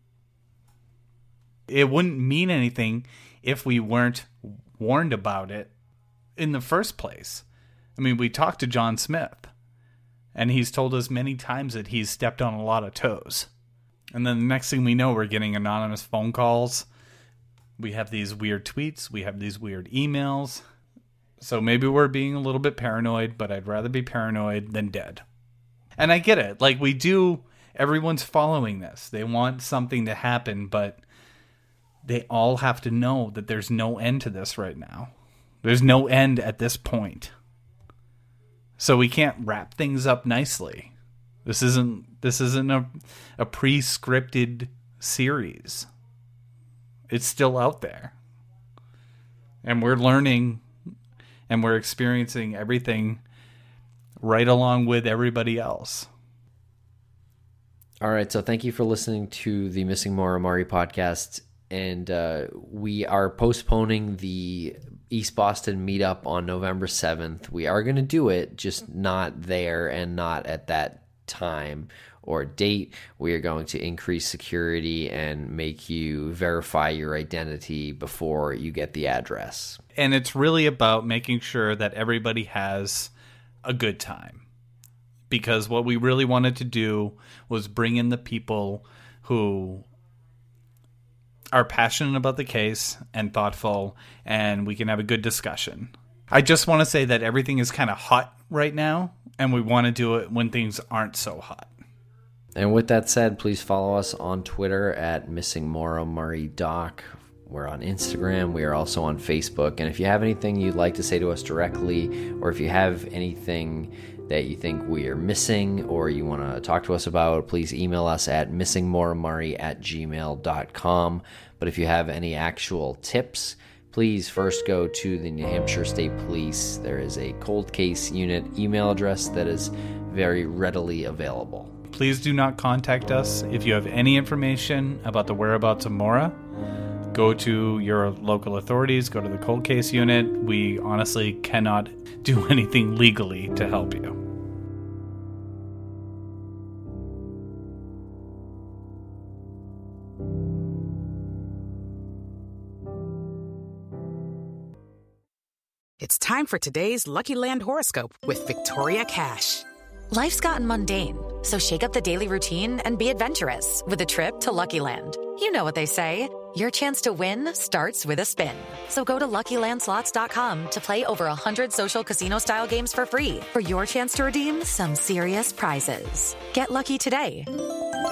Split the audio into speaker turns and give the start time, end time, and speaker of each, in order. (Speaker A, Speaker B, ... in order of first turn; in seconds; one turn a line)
Speaker A: 1.7-5.7
Speaker A: 6.4-7.4
Speaker A: 8.0-9.5
Speaker A: 10.3-13.5
Speaker A: 14.1-16.9
Speaker A: 17.8-20.6
Speaker A: 21.4-25.2
Speaker A: 26.0-31.0
Speaker A: 32.0-35.1
Speaker A: 35.6-37.3
Speaker A: 38.8-40.9
Speaker A: 41.5-45.9
Speaker A: 47.1-48.1
Speaker A: 49.6-50.6
Speaker A: 51.5-53.2
Speaker A: 54.2-56.1
Speaker B: 58.0-79.8
Speaker A: 80.0-83.1
Speaker A: 83.7-84.4
Speaker A: 85.3-89.9
Speaker A: 91.5-101.7
Speaker B: 102.5-131.7
Speaker A: 131.9-136.4
Speaker A: 137.1-144.2
Speaker C: 156.0-159.7
Speaker D: 160.1-177.5